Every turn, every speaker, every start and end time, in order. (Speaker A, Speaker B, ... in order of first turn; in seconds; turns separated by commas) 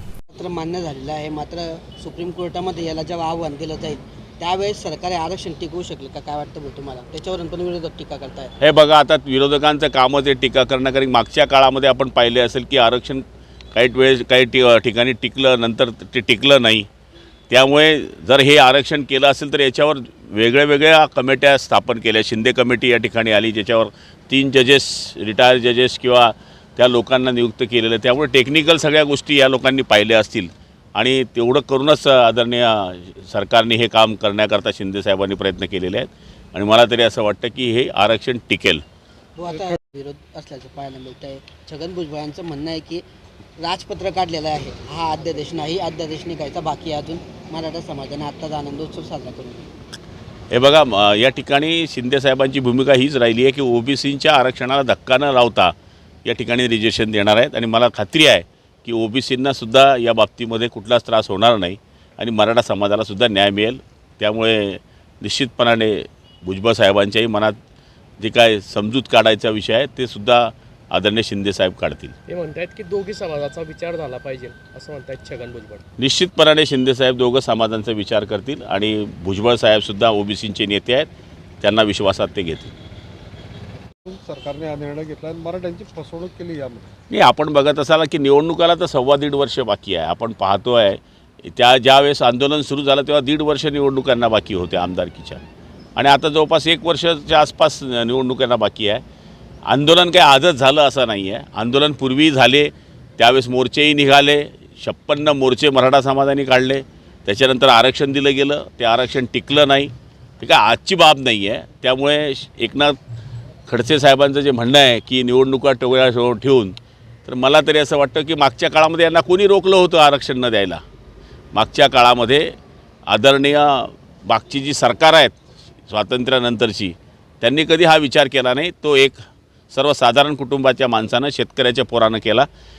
Speaker A: 0.3-8.5, Speaker B: 8.6-16.9, Speaker B: 17.5-38.8, Speaker A: 39.4-43.0, Speaker A: 43.6-49.7, Speaker B: 50.5-55.7, Speaker B: 56.2-67.6, Speaker B: 68.2-72.1, Speaker C: 72.3-75.8, Speaker B: 76.0-81.1, Speaker B: 81.6-82.7, Speaker D: 84.0-86.9, Speaker B: 87.1-95.4, Speaker B: 96.0-99.0, Speaker B: 99.7-113.0, Speaker B: 113.7-120.8, Speaker B: 121.5-122.5, Speaker B: 123.1-125.4, Speaker B: 125.9-129.2, Speaker B: 129.7-132.5